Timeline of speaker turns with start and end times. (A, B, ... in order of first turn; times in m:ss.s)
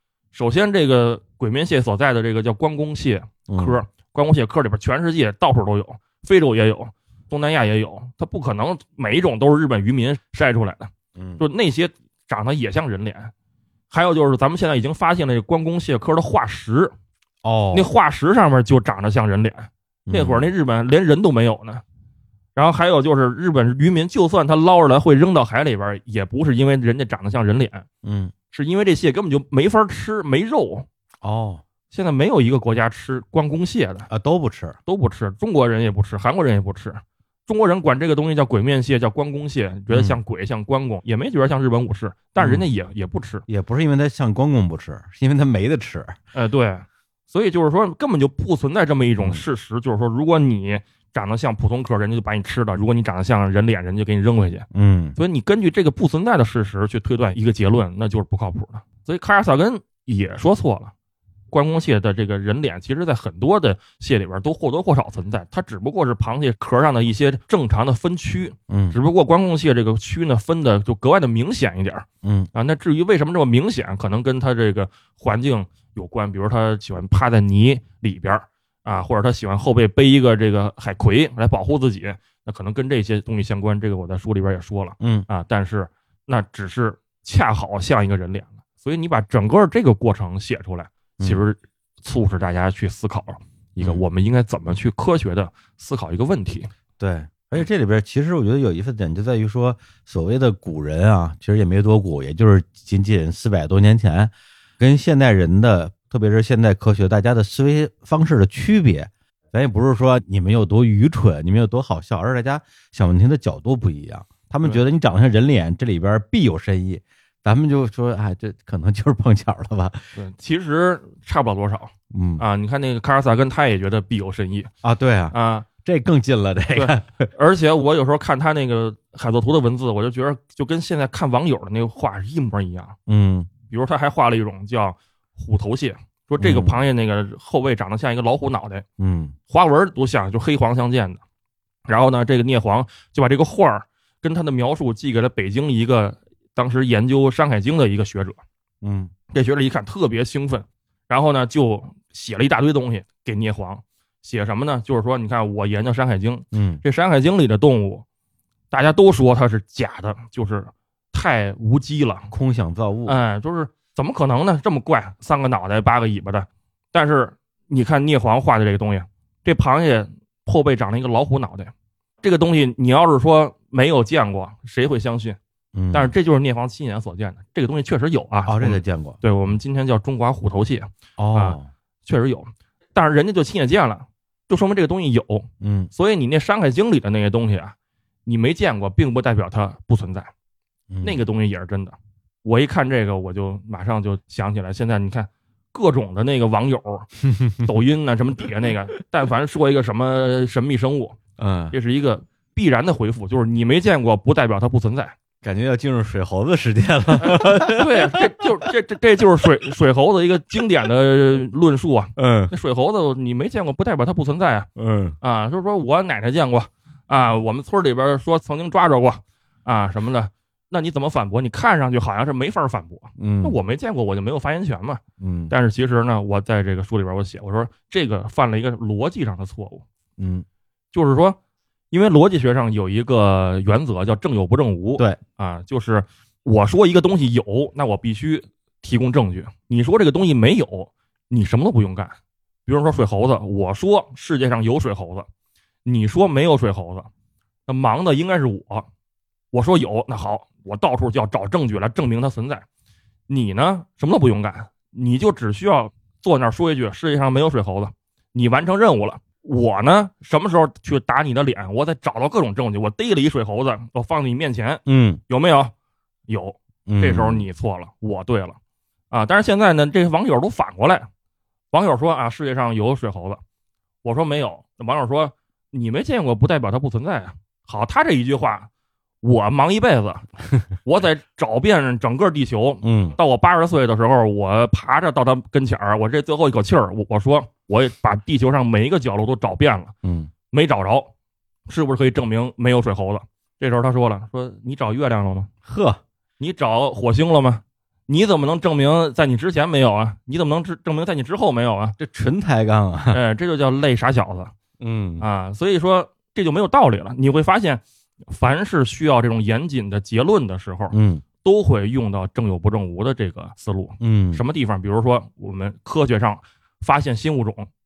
0:00.3-0:13.3 A
0:03.5-0:03.8 B
0:11.2-0:11.4 B
0:13.9-0:16.9 A
0:17.4-0:17.9 B
0:17.7-0:21.8 A
0:20.1-0:20.5 B
0:22.6-0:27.9 A
0:28.0-0:28.3 B
0:28.5-0:30.9 A
0:31.2-0:31.6 B
0:31.9-0:34.1 A
0:34.1-0:34.8 B
0:34.8-0:43.4 A
0:39.9-0:40.2 B
0:42.4-0:42.7 B
0:43.5-0:46.2 B
0:46.3-1:00.9 A
0:54.7-0:55.2 B
1:01.5-1:36.7 A
1:08.7-1:09.0 B
1:12.2-1:12.5 B
1:25.0-1:25.3 B
1:37.0-2:00.0 B
2:00.2-2:04.7 A
2:02.1-2:02.4 B
2:04.8-2:07.3 B
2:05.3-2:05.7 A
2:06.7-2:12.9 A
2:13.1-2:13.5 B
2:13.7-2:18.8 A
2:16.4-2:16.8 B
2:19.0-2:19.3 B
2:19.5-2:21.2 A
2:21.9-2:28.4 A
2:28.8-2:29.1 B
2:29.3-2:38.0 A
2:36.5-2:36.8 B
2:38.7-2:42.3 A
2:42.3-2:43.2 B
2:43.1-2:55.4 A
2:55.7-2:56.1 B
2:55.9-3:07.7 A
2:58.4-2:59.2 B
3:01.2-3:01.7 B
3:05.6-3:05.9 B
3:08.2-3:10.3 A
3:10.9-3:11.2 B
3:11.0-3:17.1 A
3:17.2-3:17.7 B
3:17.6-3:21.2 A
3:21.4-3:21.7 B
3:21.7-3:25.1 A
3:25.4-3:28.5 B
3:27.2-3:34.7 A
3:32.2-3:32.5 B
3:34.8-3:35.2 B
3:35.2-3:49.8 A
3:43.2-3:43.6 B
3:45.2-3:45.5 B
3:50.2-3:50.4 B
3:50.9-3:51.4 A
3:51.9-4:05.3 A
4:05.8-4:07.1 A
4:07.7-4:08.9 A
4:09.5-4:12.6 A
4:13.3-4:25.7 A
4:24.8-4:25.2 B
4:26.3-4:28.6 A
4:26.9-4:27.5 B
4:29.1-4:31.1 A
4:31.7-4:33.4 A
4:34.0-4:38.7 A
4:39.2-4:49.9 A
4:42.8-4:43.2 B
4:50.0-4:50.3 B
4:50.5-4:51.1 A
4:51.7-4:55.5 A
4:55.6-4:56.0 B
4:56.4-5:02.0 A
5:02.0-5:03.2 B
5:03.1-5:04.5 A
5:04.8-5:05.2 B
5:05.2-5:17.7 A
5:10.9-5:11.2 B
5:14.0-5:14.4 B